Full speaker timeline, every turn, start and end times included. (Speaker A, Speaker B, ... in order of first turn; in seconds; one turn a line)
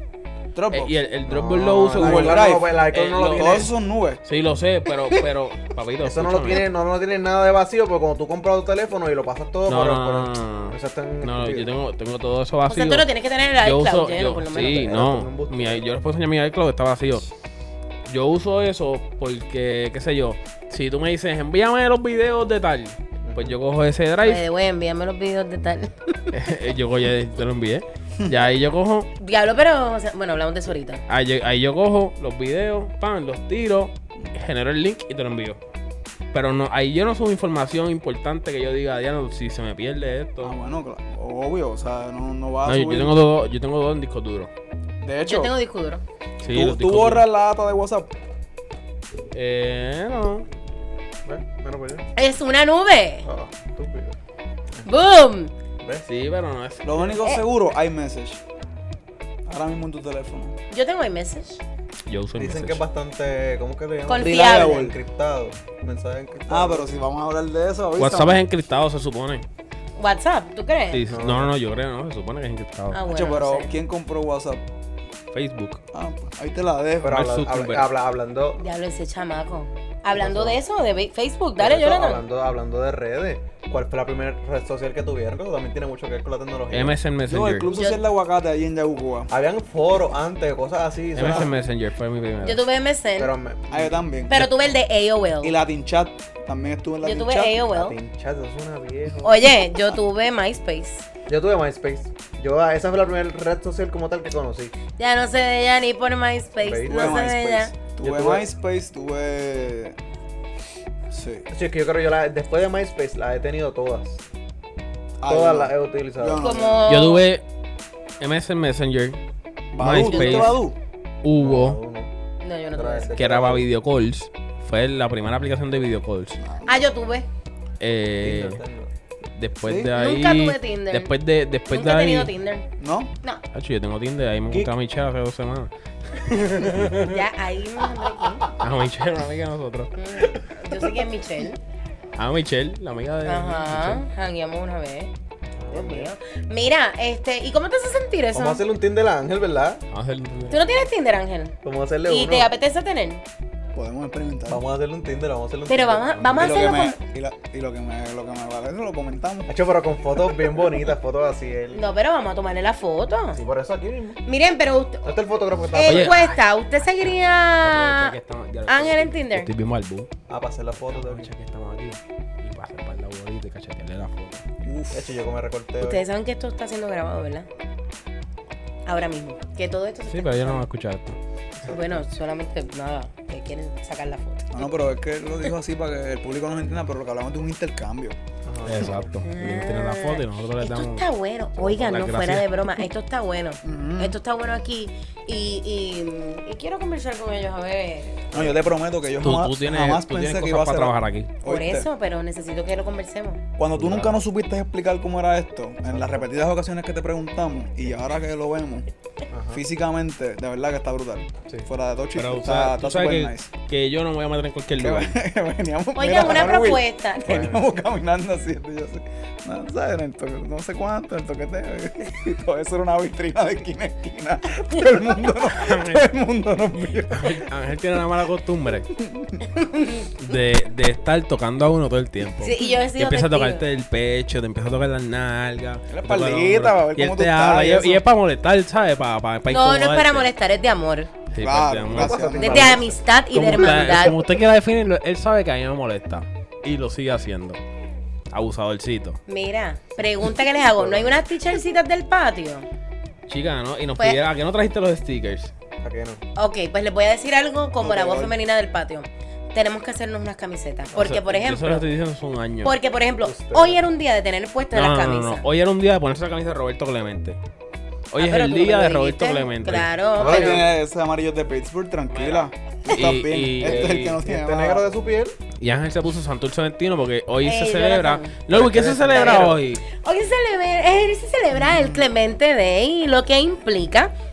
Speaker A: 0.6-0.9
Speaker B: 0.7-3.7
Speaker C: 1.3-3.7
Speaker A: 1.9-4.2
Speaker B: 4.2-6.7
Speaker C: 6.0-11.7
Speaker B: 9.7-17.3
Speaker D: 12.7-15.0
Speaker C: 14.8-15.8
Speaker B: 18.1-24.4
Speaker C: 23.2-23.6
Speaker D: 24.2-26.2
Speaker B: 26.3-29.1
Speaker D: 29.2-31.0
Speaker B: 31.1-35.6
Speaker B: 36.3-40.5
Speaker A: 40.4-43.2
Speaker B: 42.6-44.5
Speaker A: 45.0-45.5
Speaker D: 45.2-46.0
Speaker B: 46.4-47.3
Speaker A: 46.5-48.1
Speaker B: 49.3-50.5
Speaker C: 51.2-52.1
Speaker D: 52.1-53.3
Speaker C: 53.2-54.1
Speaker D: 54.9-55.5
Speaker B: 56.0-57.1
Speaker A: 56.8-58.4
Speaker A: 59.5-60.5
Speaker D: 60.7-61.6
Speaker B: 62.1-62.8
Speaker C: 62.4-67.0
Speaker D: 64.1-64.9
Speaker A: 64.2-64.9
Speaker A: 66.5-68.4
Speaker B: 68.0-69.5
Speaker D: 70.0-71.2
Speaker B: 70.9-73.0
Speaker C: 71.1-71.5
Speaker D: 72.9-73.7
Speaker A: 73.1-74.6
Speaker B: 75.3-75.8
Speaker A: 75.9-77.2
Speaker C: 77.0-78.6
Speaker B: 77.1-77.9
Speaker D: 78.6-82.2
Speaker C: 80.1-80.6
Speaker C: 81.6-87.0
Speaker B: 86.7-87.7
Speaker A: 87.3-89.3
Speaker D: 87.7-88.1
Speaker C: 89.3-91.5
Speaker B: 91.1-92.6
Speaker D: 92.4-93.3
Speaker C: 93.2-94.0
Speaker A: 93.7-94.5
Speaker D: 94.3-95.6
Speaker A: 95.4-97.6
Speaker D: 97.0-98.0
Speaker C: 97.7-99.5
Speaker D: 99.2-101.0
Speaker C: 101.3-104.7
Speaker D: 105.0-107.7
Speaker C: 106.6-107.2
Speaker A: 106.9-110.0
Speaker C: 108.0-108.5
Speaker A: 111.1-111.5
Speaker C: 111.5-114.2
Speaker A: 115.2-116.8
Speaker C: 115.2-116.8
Speaker D: 116.4-117.2
Speaker B: 116.9-117.4
Speaker B: 118.2-119.2
Speaker A: 119.7-120.7
Speaker B: 119.8-120.6
Speaker D: 119.9-120.6
Speaker B: 121.2-121.8
Speaker C: 121.4-122.1
Speaker D: 122.4-123.1
Speaker C: 122.7-123.7
Speaker B: 123.2-126.4
Speaker A: 126.4-126.7
Speaker D: 126.7-127.3
Speaker B: 127.8-128.6
Speaker C: 128.2-128.9
Speaker B: 129.3-132.3
Speaker A: 129.6-129.9
Speaker D: 129.9-131.1
Speaker D: 131.7-132.7
Speaker A: 132.8-133.1
Speaker B: 133.5-137.2
Speaker D: 137.1-138.5
Speaker B: 138.6-139.9
Speaker D: 139.9-141.6
Speaker C: 140.2-141.1
Speaker B: 142.2-144.0
Speaker D: 143.2-145.1
Speaker C: 145.6-146.1
Speaker D: 145.7-148.6
Speaker C: 148.3-149.8
Speaker B: 149.9-150.8
Speaker D: 150.5-151.5
Speaker C: 151.6-152.5
Speaker D: 152.1-153.2
Speaker A: 153.8-154.6
Speaker C: 154.5-156.8
Speaker D: 155.7-157.0
Speaker A: 156.4-159.5
Speaker C: 159.5-161.8
Speaker D: 161.7-163.4
Speaker C: 163.3-164.2
Speaker D: 164.2-165.2
Speaker C: 165.0-166.2
Speaker D: 165.7-168.2
Speaker B: 165.8-166.3
Speaker B: 167.0-170.1
Speaker D: 168.7-169.5
Speaker C: 170.3-171.3
Speaker B: 170.9-174.4
Speaker A: 174.6-175.1
Speaker C: 174.9-176.0
Speaker D: 175.8-177.5
Speaker D: 178.8-180.6
Speaker B: 180.1-181.2
Speaker C: 181.6-182.1
Speaker D: 181.7-184.8
Speaker A: 184.5-188.2
Speaker C: 188.4-189.1
Speaker B: 188.6-191.1
Speaker D: 189.2-198.5
Speaker B: 191.6-192.5
Speaker A: 193.6-194.2
Speaker A: 198.3-201.9
Speaker B: 199.2-201.3
Speaker D: 201.4-203.4
Speaker A: 203.6-208.8
Speaker B: 203.8-204.1
Speaker C: 205.8-206.3
Speaker C: 209.3-209.6
Speaker A: 209.5-213.5
Speaker B: 212.1-215.2
Speaker A: 214.8-227.4
Speaker D: 215.9-217.4
Speaker C: 217.2-217.6
Speaker B: 225.5-226.1
Speaker B: 227.1-228.9
Speaker A: 229.0-229.4
Speaker D: 229.5-230.1
Speaker B: 230.2-240.3
Speaker D: 232.4-233.6
Speaker A: 235.9-238.0
Speaker D: 239.5-241.1
Speaker B: 241.3-242.7
Speaker A: 241.4-242.8
Speaker C: 241.9-243.0
Speaker D: 242.4-244.2
Speaker B: 243.3-247.6
Speaker B: 248.3-249.2
Speaker D: 249.3-252.7
Speaker C: 250.6-251.2
Speaker B: 253.3-255.5
Speaker C: 255.8-256.2
Speaker D: 256.4-261.9
Speaker A: 257.8-258.3
Speaker B: 260.9-262.8
Speaker D: 262.6-265.4
Speaker C: 263.2-263.8
Speaker B: 264.7-267.4
Speaker B: 268.1-269.9
Speaker D: 268.2-270.7
Speaker C: 270.2-270.6
Speaker A: 270.2-274.8
Speaker B: 272.1-274.2
Speaker C: 273.6-275.4
Speaker B: 275.6-279.8
Speaker D: 277.4-278.3
Speaker C: 278.5-279.6
Speaker D: 279.1-284.1